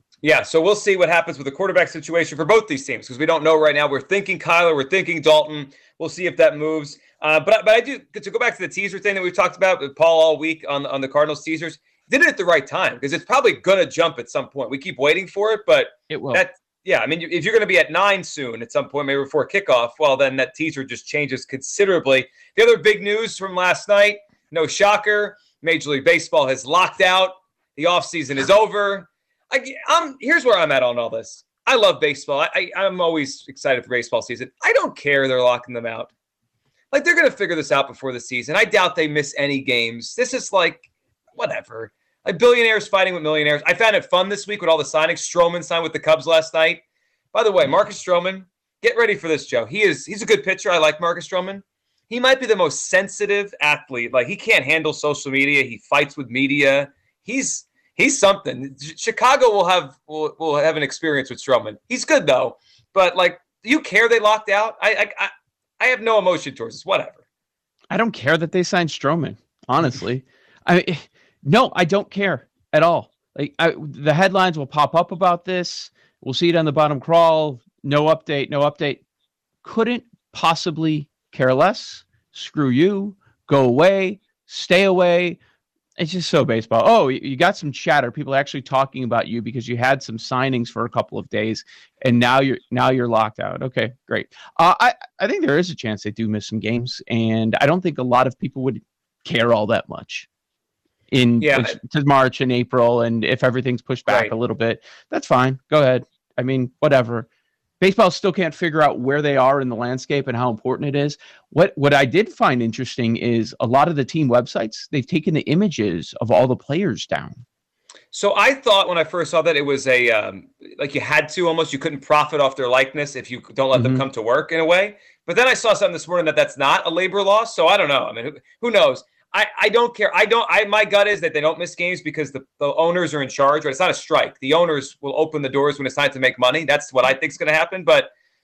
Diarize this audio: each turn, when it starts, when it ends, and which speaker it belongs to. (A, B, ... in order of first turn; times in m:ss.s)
0:00.2-0:36.1 A
0:16.1-0:16.4 B
0:36.9-0:40.8 A
0:41.4-0:46.8 A
0:47.3-1:07.2 A
1:07.9-1:19.0 B
1:19.6-1:25.4 B
1:26.0-1:40.3 B
1:41.1-1:47.3 B
1:41.4-1:41.7 A
1:47.8-1:57.4 B
1:58.1-2:18.1 A
2:03.7-2:04.0 B